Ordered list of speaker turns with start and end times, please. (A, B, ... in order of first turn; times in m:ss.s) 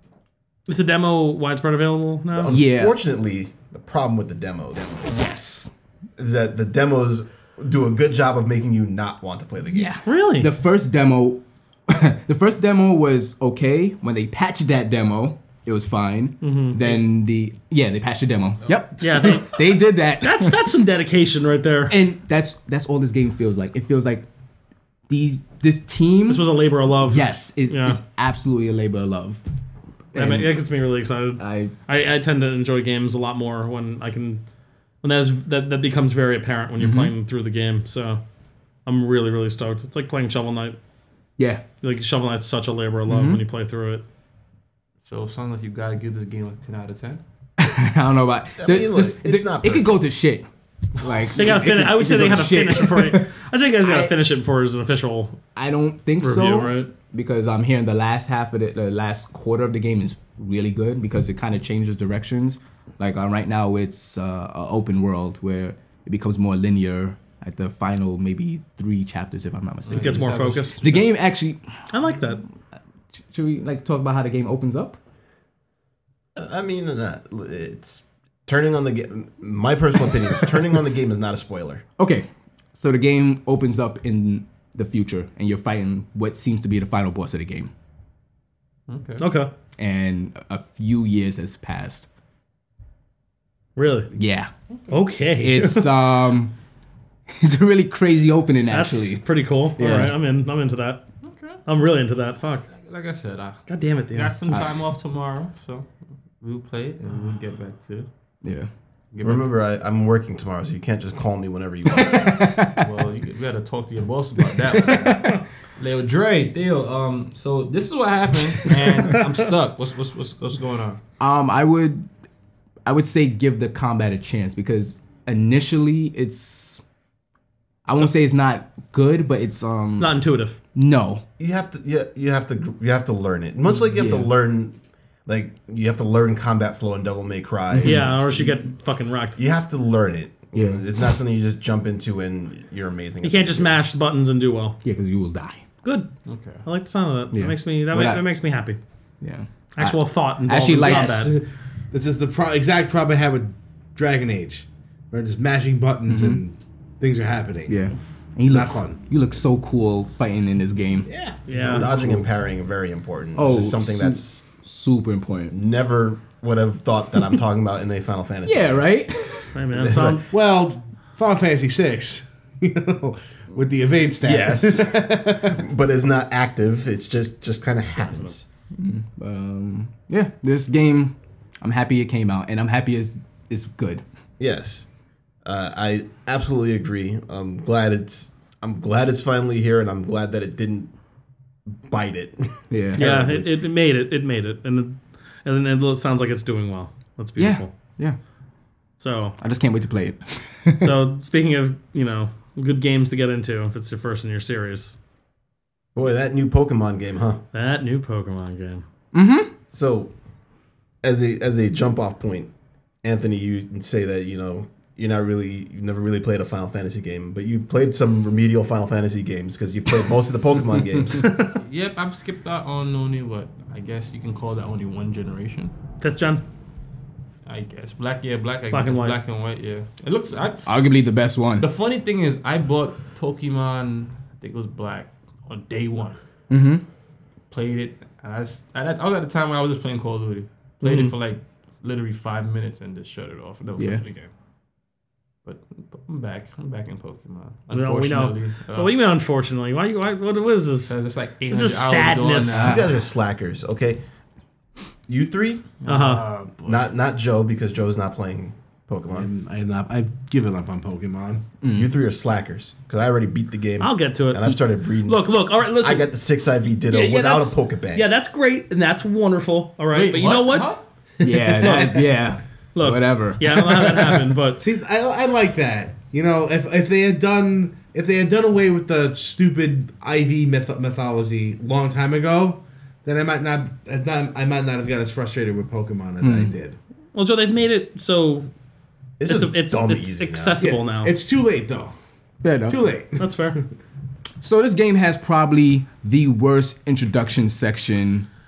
0:00.7-0:02.6 A
0:02.3-0:05.1 B
0:02.5-0:03.0 C
0:05.0-0:05.7 C
0:06.2-0:10.0 B
0:09.7-0:20.6 C
0:10.0-0:10.5 A
0:16.4-0:17.0 A
0:19.0-0:22.0 A
0:21.9-0:24.2 C
0:25.1-0:26.5 C
0:26.3-0:28.0 A
0:27.0-0:29.4 C
0:30.1-0:30.5 C
0:30.1-0:34.4 A
0:31.4-0:31.7 C
0:35.0-0:38.2 A
0:36.8-0:37.1 C
0:38.8-0:40.8 A
0:41.4-0:41.6 C
0:41.8-0:44.0 A
0:43.1-0:43.4 C
0:45.0-0:47.2 D
0:47.6-0:53.3 C
0:48.6-0:49.9 B
0:51.3-0:55.4 A
0:53.8-0:54.1 C
0:55.6-1:11.8 C
0:56.2-0:56.9 A
1:09.9-1:11.0 D
1:09.9-1:10.9 A
1:11.9-1:12.4 A
1:13.3-1:15.0 C
1:16.4-1:21.8 B
1:22.0-1:27.7 C
1:28.9-1:29.2 D
1:29.2-1:29.5 A
1:29.8-1:32.1 C
1:33.8-1:34.1 A
1:34.1-1:34.5 C
1:34.9-1:36.0 A
1:35.4-1:36.5 C
1:37.3-1:39.2 C
1:38.7-1:41.0 A
1:39.8-1:40.1 C
1:41.2-1:41.6 D
1:41.6-1:42.7 A
1:42.7-1:48.1 D
1:43.7-1:44.4 A
1:48.4-1:48.7 C
1:49.1-1:49.5 D
1:49.2-1:52.6 B
1:51.9-1:52.9 C
1:52.7-2:01.0 D
1:54.6-1:55.4 C
2:01.2-2:02.1 C
2:02.8-2:06.8 C
2:07.8-2:10.2 C
2:10.0-2:10.6 A
2:10.7-2:11.2 C
2:11.4-2:18.7 B
2:13.9-2:14.3 C
2:17.7-2:18.0 C
2:17.8-2:19.4 A
2:19.4-2:23.8 B
2:20.5-2:20.8 C
2:23.2-2:24.8 A
2:24.8-2:25.6 C
2:25.8-2:26.1 A
2:26.3-2:26.6 D
2:26.6-2:28.8 A
2:27.3-2:28.2 C
2:29.2-2:31.3 C
2:29.8-2:31.3 A
2:30.8-2:37.8 E
2:36.1-2:36.4 C
2:37.7-2:41.1 C
2:38.4-2:39.0 E
2:41.0-2:42.0 E
2:41.5-2:41.9 A
2:41.5-2:44.4 B
2:41.8-2:42.2 C
2:43.3-2:45.5 C
2:45.5-2:48.8 B
2:48.4-2:49.5 C
2:49.5-2:50.2 A
2:49.7-2:50.2 B
2:50.3-2:55.6 E
2:54.2-2:58.4 B
2:58.8-3:04.0 C
3:04.4-3:04.8 B
3:05.4-3:10.9 B
3:11.8-3:13.5 B
3:12.7-3:13.1 C
3:13.0-3:17.7 A
3:17.4-3:18.2 C
3:19.0-3:19.3 A
3:19.4-3:20.9 C
3:20.8-3:25.0 A
3:25.9-3:27.4 B
3:27.5-3:28.8 A
3:29.1-3:29.5 C
3:29.7-3:30.1 B
3:31.0-3:32.5 B
3:33.0-3:41.3 B
3:41.2-3:41.6 A
3:41.5-3:45.7 D
3:46.0-3:46.4 A
3:47.4-3:50.7 D
3:48.7-3:49.2 A
3:50.6-3:51.7 C
3:51.6-3:56.2 D
3:56.5-3:56.8 C
3:57.5-4:04.3 D
4:00.8-4:01.1 A
4:03.8-4:04.0 C
4:05.4-4:08.9 D
4:07.7-4:10.9 A
4:10.9-4:12.9 D
4:11.5-4:12.7 A
4:12.5-4:12.9 C
4:12.5-4:14.0 B
4:15.1-4:15.7 B
4:15.8-4:16.9 D
4:15.8-4:16.2 A
4:16.6-4:19.3 B
4:19.1-4:21.4 E
4:21.6-4:21.9 C
4:21.7-4:25.2 B
4:23.8-4:26.0 A
4:25.8-4:28.0 B
4:26.9-4:32.1 A
4:29.9-4:30.8 D
4:31.2-4:34.2 C
4:32.7-4:34.6 A
4:34.6-4:46.8 E
4:46.2-4:46.5 C
4:47.1-4:48.5 A
4:49.2-4:50.6 B
4:49.2-4:51.1 A
4:50.6-4:51.9 E
4:52.4-4:52.8 C
4:52.6-4:53.6 E
4:53.2-4:53.6 A
4:54.4-4:58.3 C